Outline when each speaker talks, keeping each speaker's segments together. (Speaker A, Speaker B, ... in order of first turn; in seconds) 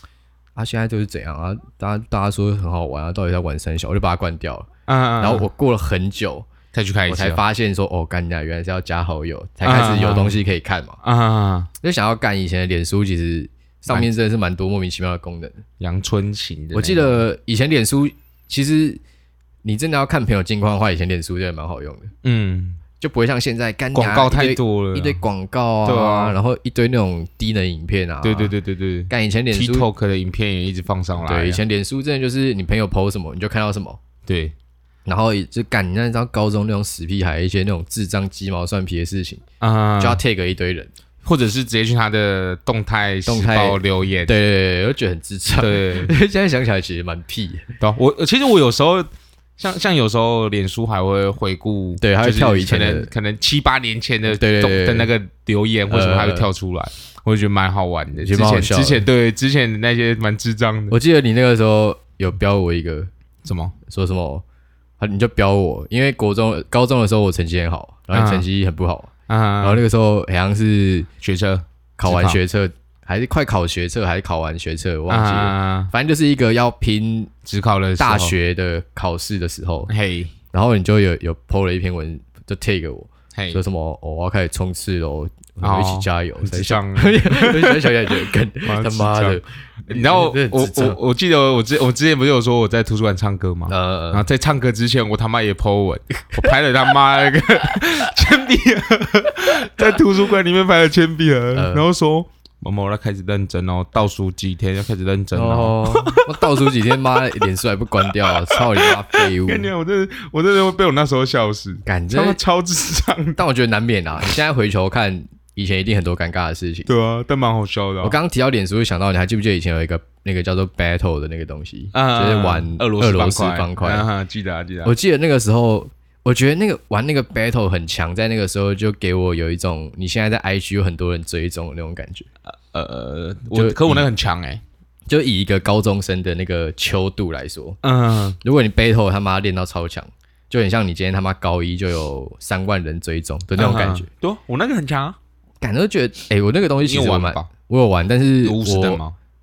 Speaker A: 0.6-4.7, 5.2-6.5, 7.1-11.0, 11.8-15.6, 16.7-19.0, 19.6-22.1, 23.0-28.5, 29.1-29.9, 31.2-34.0, 35.0-39.4, 40.0-40.9, 43.2-47.7, 52.0-53.1, 54.3-55.1, 55.9-56.5, 58.2-59.0, 60.9-63.1, 63.9-64.4, 65.0-71.1, 72.0-77.3, 78.0-79.9, 80.5-91.0, 93.7-94.2, 101.5-101.8, 105.3-109.7, 111.8-112.4, 113.3-116.9, 118.0-124.1, 124.8-132.3, 133.5-134.1, 135.1-137.8, 138.4-144.1, 145.6-149.0
Speaker B: 4.9-5.5, 6.7-7.4, 9.6-10.4, 11.0-11.7, 15.8-17.2, 22.2-22.8, 23.9-25.2, 25.8-26.4, 28.2-31.6, 34.2-34.5, 39.6-40.2, 41.2-44.3, 45.5-46.1, 47.8-61.0, 63.4-63.7, 68.1-68.5, 69.3-69.8, 71.2-72.4, 75.1-75.9, 77.4-78.3, 79.9-80.3, 83.3-83.6, 85.6-106.7, 108.1-113.4, 116.9-118.2, 121.9-124.9, 132.7-134.6, 137.8-138.4, 143.6-145.2, 146.8-147.5, 148.4-149.2